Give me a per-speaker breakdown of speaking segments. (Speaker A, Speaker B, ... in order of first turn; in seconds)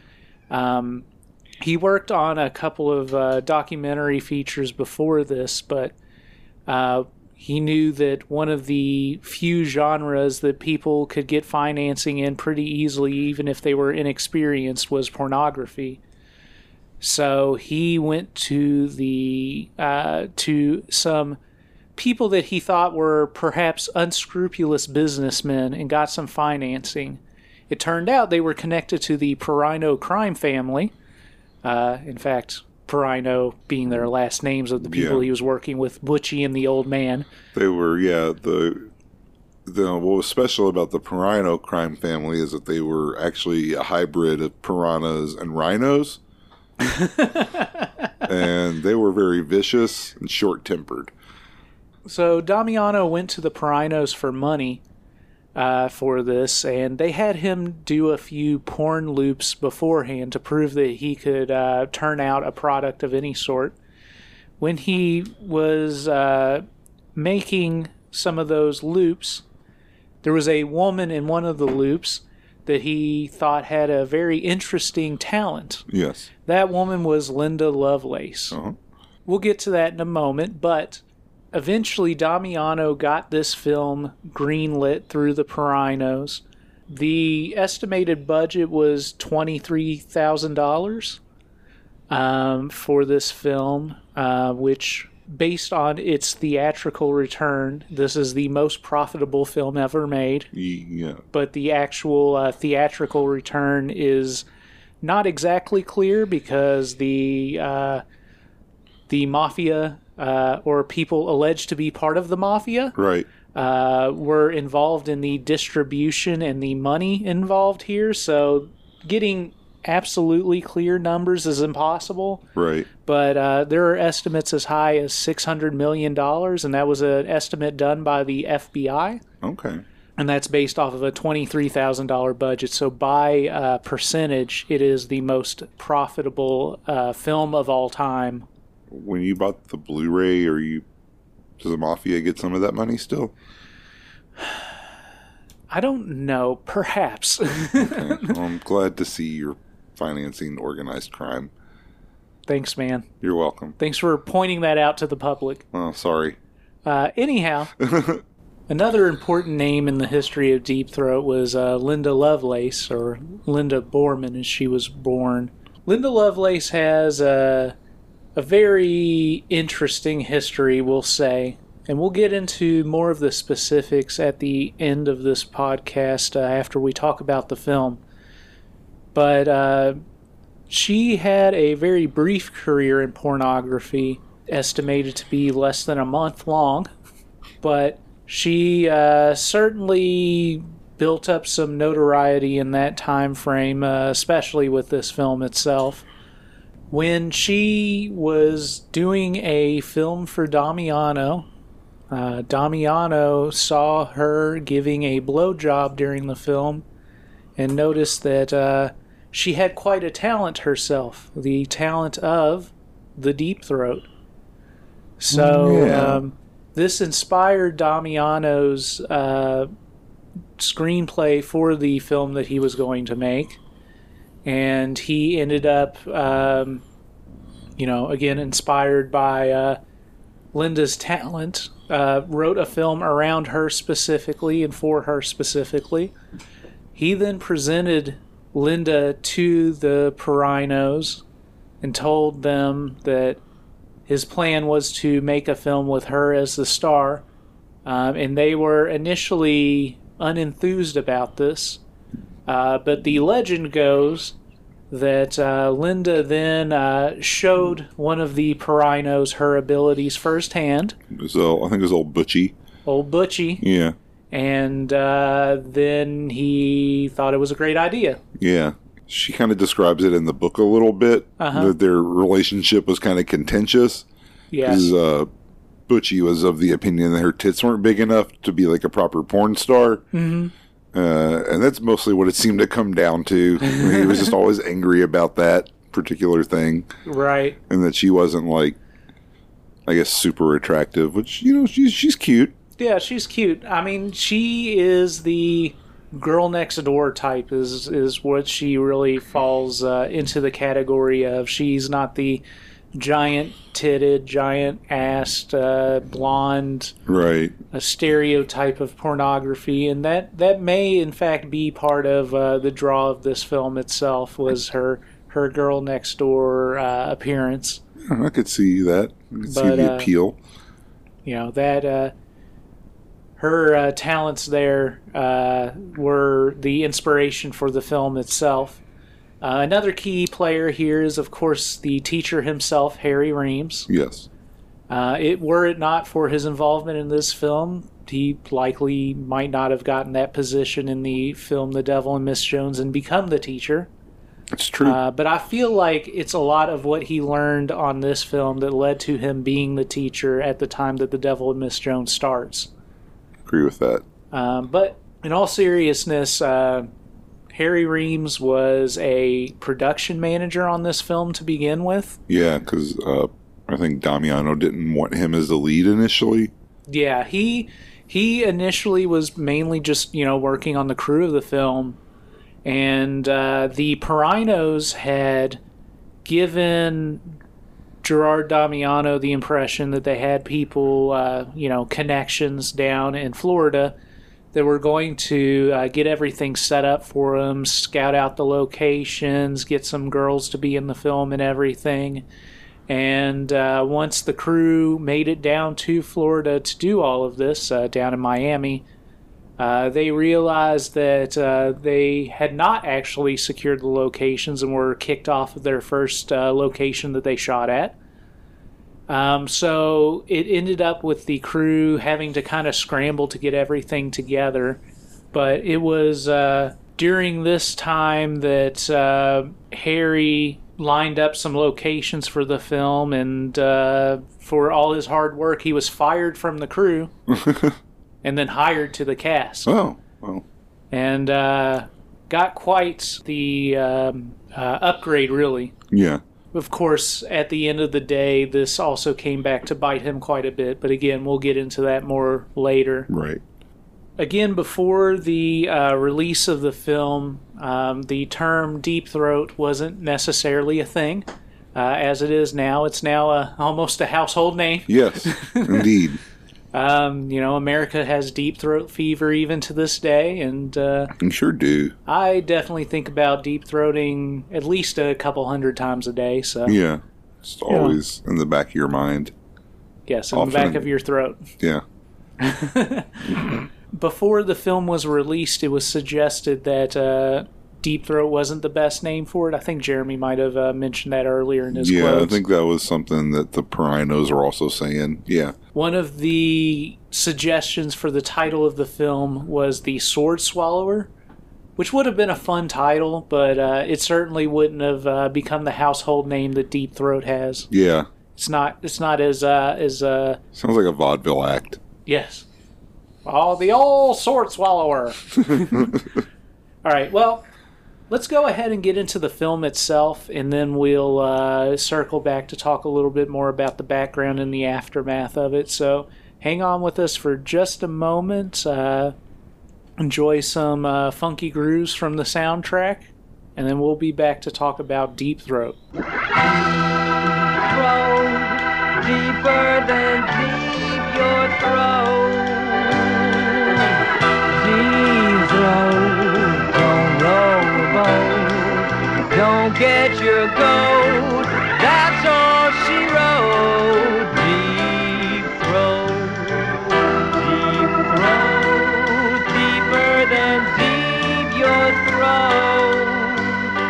Speaker A: 0.5-1.0, 1.6-5.9, 6.7-16.0, 17.0-21.4, 21.9-30.9, 31.6-37.3, 46.8-47.9, 52.0-54.8, 55.5-63.8, 64.6-69.4, 70.2-75.8, 76.5-78.6, 79.2-91.2, 92.1-100.5, 101.3-104.4, 105.0-108.0, 109.1-112.9, 113.5-122.4, 123.0-129.2, 130.2-138.4, 145.7-148.3, 152.5-153.1, 153.8-155.6, 156.8-157.7, 158.7-167.7, 168.3-178.0, 179.1-180.0, 180.7-186.9, 187.6-196.1, 196.9-201.4, 202.1-206.8, 207.6-214.1, 215.2-219.7, 220.6-223.6, 224.4-226.8, 227.8-229.8, 230.5-236.1, 236.9-241.2, 241.8-243.4, 244.1-247.2, 247.8-251.8, 252.5-254.3, 254.9-261.0, 262.9-263.6, 264.3-268.2, 271.4-271.7, 274.5-274.9, 280.1-280.5, 283.6-284.3, 287.1-287.6, 292.8-302.4, 302.9-306.9, 307.7-317.8, 319.5-320.1, 321.2-322.1, 323.4-328.8, 329.4-333.9, 334.9-343.9, 344.8-352.7, 354.3-356.9, 357.5-362.2, 366.9-372.0, 372.6-375.6, 376.2-377.2, 378.0-383.9, 384.5-392.2, 392.9-398.8, 399.6-407.9, 409.1-414.8, 415.3-427.1, 428.2-429.7, 430.9-435.7, 436.5-443.1, 444.2-455.9, 456.7-461.1, 462.1-466.8, 467.7-468.0, 470.1-471.4, 472.4-482.4, 485.7-491.1, 491.8-497.7, 498.3-500.4, 502.1-502.4, 503.2-506.0, 506.8-507.4, 508.1-519.1, 520.0-525.8
Speaker B: 34.8-35.2, 37.5-38.9, 39.6-46.2, 48.2-51.1, 75.9-76.3, 78.5-78.8, 100.5-101.2, 113.0-113.3, 122.5-122.9, 129.4-129.8, 138.9-140.8, 141.6-143.3, 147.8-151.5, 153.2-153.8, 155.7-156.4, 157.8-158.2, 215.3-216.2, 261.1-262.5, 263.6-263.9, 268.4-274.1, 274.6-275.3, 275.9-280.0, 280.9-286.9, 287.7-288.8, 289.9-292.5, 307.1-307.5, 318.0-320.4, 333.9-334.3, 344.5-345.0, 353.4-354.0, 362.3-366.5, 427.3-427.8, 429.6-430.4, 435.9-436.2, 443.1-443.4, 454.9-456.2, 461.2-461.9, 466.6-469.3, 470.3-470.9, 473.3-473.6, 481.7-485.5, 497.7-498.1, 500.5-501.8, 505.6-506.0
Speaker C: 527.6-534.0, 534.5-553.6